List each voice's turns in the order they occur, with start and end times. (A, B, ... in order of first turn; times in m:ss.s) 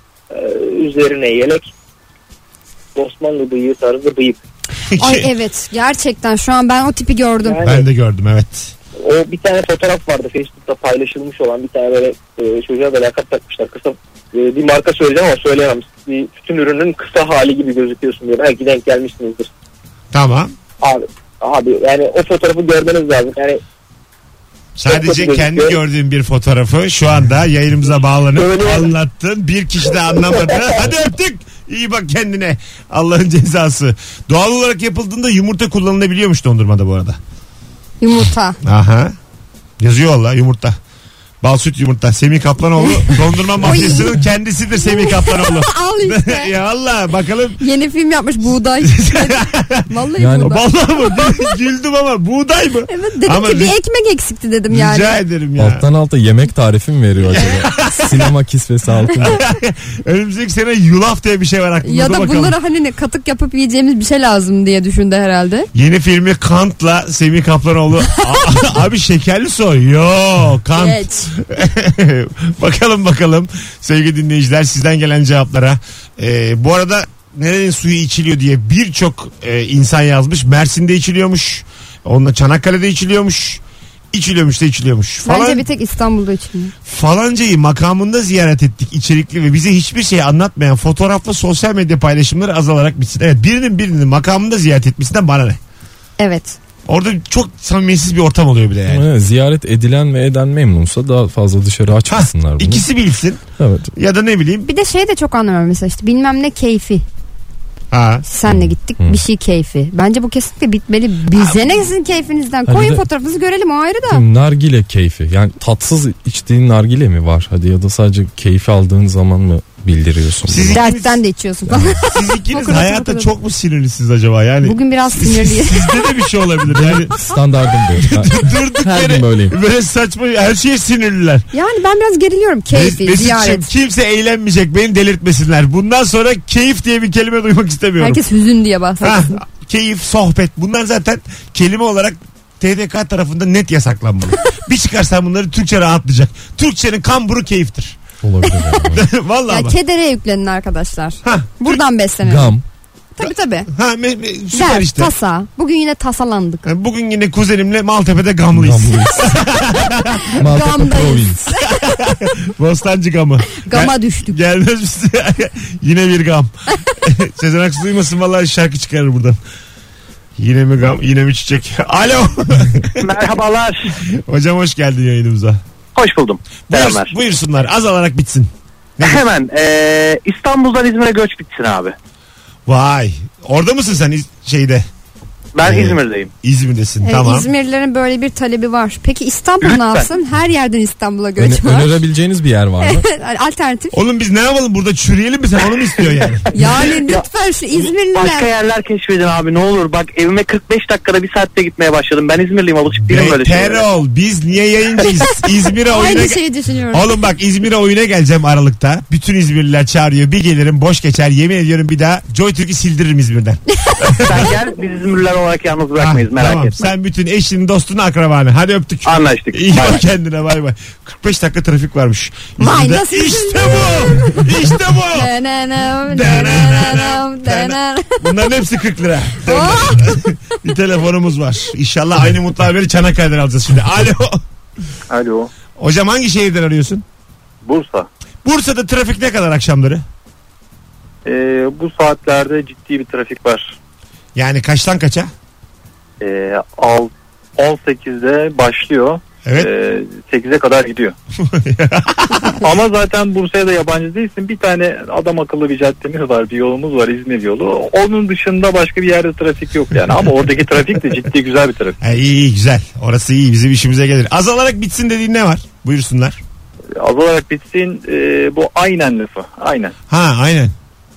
0:00.3-0:01.7 A
0:03.0-0:04.4 A
0:04.9-0:05.3 B
0:05.0-0:07.7 C
0:07.4-0:07.9 A
0:07.6-0:08.7 B
0:09.0-0:19.5 A
0:20.1-0:20.5 B
0:20.8-0:23.6 A
0:24.8-0:37.2 B
0:24.9-0:25.8 A
0:28.3-0:28.9 A
0:29.9-0:30.8 A
0:38.0-0:38.6 C
0:38.6-0:39.2 B
0:39.8-0:40.8 B
0:41.4-0:47.6 B
0:42.8-0:44.2 C
0:44.8-0:46.5 C
0:47.6-0:51.5 C
0:48.8-0:49.9 B
0:50.2-0:50.6 D
0:50.4-0:53.8 B
0:52.9-0:55.2 C
0:54.7-0:55.8 B
0:55.6-0:59.4 D
0:57.3-0:58.3 B
0:57.4-0:58.0 C
0:59.2-1:02.6 B
1:01.8-1:05.7 C
1:05.7-1:23.6 B
1:10.8-1:11.3 C
1:24.1-1:25.6 B
1:25.2-1:26.7 C
1:26.9-1:35.6 B
1:36.2-1:36.6 C
1:36.9-1:39.1 B
1:38.9-1:42.9 D
1:42.1-1:43.4 B
1:43.6-1:43.9 D
1:44.0-1:44.7 B
1:44.6-1:47.0 C
1:47.9-1:48.2 B
1:48.3-1:54.2 C
1:48.5-1:49.2 D
1:51.3-1:51.6 B
1:52.7-1:53.0 D
1:54.1-2:00.8 D
2:00.5-2:01.2 B
2:00.7-2:03.3 C
2:01.7-2:02.0 D
2:02.1-2:07.2 B
2:04.6-2:06.0 C
2:06.7-2:09.6 D
2:08.0-2:11.5 B
2:11.5-2:13.7 C
2:12.7-2:18.2 B
2:18.0-2:19.4 C
2:19.0-2:28.0 B
2:28.2-2:29.1 D
2:28.9-2:29.8 B
2:29.5-2:32.6 C
2:31.2-2:31.8 B
2:32.2-2:32.6 D
2:33.2-2:33.7 C
2:33.7-2:35.1 B
2:34.5-2:36.7 C
2:36.6-2:40.3 B
2:38.5-2:39.4 D
2:40.3-2:42.0 C
2:40.4-2:41.4 D
2:41.7-2:49.4 B
2:43.6-2:44.4 C
2:50.4-2:53.1 B
2:53.1-2:53.7 E
2:54.1-2:55.6 B
2:56.0-2:57.1 E
2:56.7-2:59.3 B
2:59.4-3:01.9 E
3:02.7-3:04.9 B
3:05.6-3:06.3 E
3:05.6-3:07.5 B
3:07.0-3:12.0 C
3:11.4-3:13.1 D
3:12.8-3:14.0 C
3:13.9-3:16.5 B
3:16.5-3:18.5 C
3:18.2-3:19.6 E
3:23.1-3:26.4 B
3:25.9-3:27.1 C
3:26.9-3:34.5 B
3:33.8-3:34.1 C
3:34.3-3:36.7 E
3:36.0-3:45.3 B
3:39.2-3:39.8 E
3:42.6-3:44.5 C
3:45.1-3:48.6 C
3:46.1-3:54.4 B
3:49.4-3:50.2 C
3:55.1-3:55.5 E
3:55.8-3:57.0 B
3:57.7-3:58.0 F
3:58.4-4:00.0 B
4:01.3-4:03.7 F
4:04.4-4:05.3 B
4:06.2-4:11.1 F
4:11.4-4:12.6 B
4:12.6-4:22.0 F
4:22.0-4:26.4 B
4:27.0-4:29.9 F
4:30.1-4:30.7 B